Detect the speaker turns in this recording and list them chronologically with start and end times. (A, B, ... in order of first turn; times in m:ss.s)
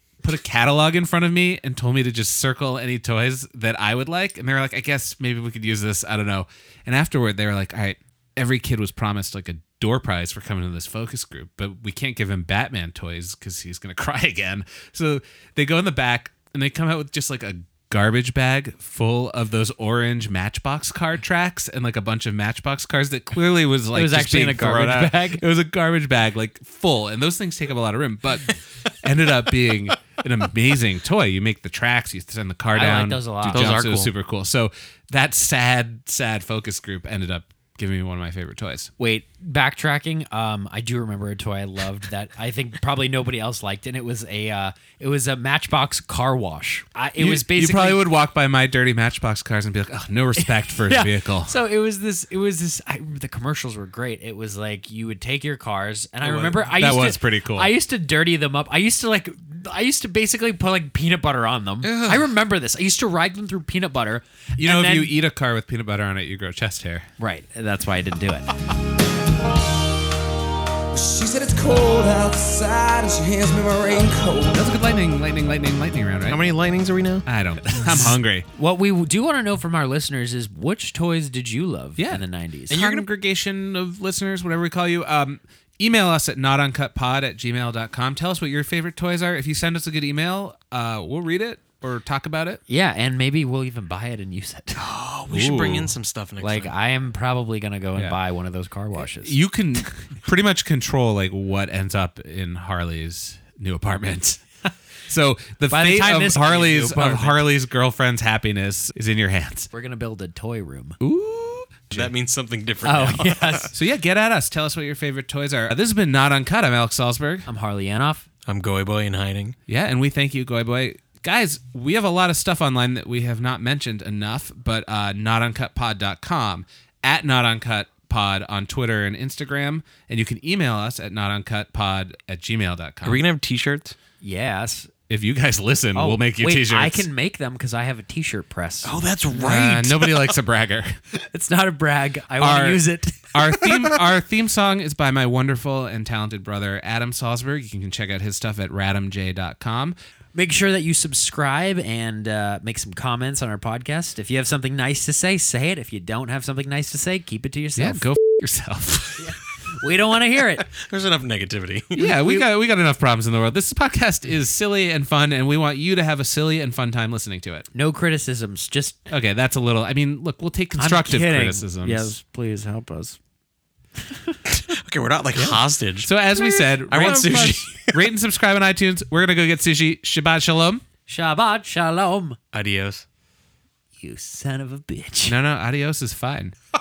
0:00.2-0:38.9 A
0:23.9-0:25.4 B
0:32.7-0:33.7 B
0:33.4-0:34.1 C
0:39.0-0:48.1 B
0:47.2-0:51.5 A
0:50.4-1:05.2 B
0:56.2-0:57.8 A
1:01.8-1:02.3 A
1:04.6-1:07.1 A
1:07.2-1:08.5 B
1:10.9-1:14.6 D
1:14.5-1:16.5 A
1:16.3-1:17.3 C
1:17.3-1:18.5 A
1:18.6-1:22.9 B
1:22.0-1:32.6 A
1:22.7-1:23.0 C
1:32.7-1:34.8 B
1:34.8-1:36.7 C
1:35.3-1:36.0 A
1:36.4-1:39.4 B
1:39.0-1:44.4 A
1:45.1-1:49.7 A
1:45.7-1:47.4 B
1:49.7-1:51.0 B
1:51.0-1:52.1 A
1:51.9-1:53.7 C
1:52.8-1:53.7 B
1:53.7-1:57.5 A
1:57.5-1:58.3 B
1:58.5-1:59.6 C
1:59.7-2:13.2 A
2:13.0-2:14.0 C
2:14.2-2:14.9 B
2:15.1-2:17.1 A
2:15.9-2:18.9 B
2:18.8-2:20.4 C
2:19.3-2:21.0 A
2:21.3-2:23.6 B
2:22.4-2:22.8 A
2:23.3-2:30.0 A
2:30.3-2:38.0 B
2:37.8-2:39.3 A
2:39.2-2:40.7 B
2:40.7-2:42.3 C
2:42.0-2:47.7 A
2:47.7-2:49.1 B
2:49.1-2:52.2 A
2:50.8-2:53.2 B
2:54.1-2:54.4 B
2:54.5-2:58.0 C
2:55.4-3:00.8 A
3:01.1-3:02.4 B
3:02.5-3:03.0 C
3:04.0-3:05.4 B
3:05.3-3:06.6 A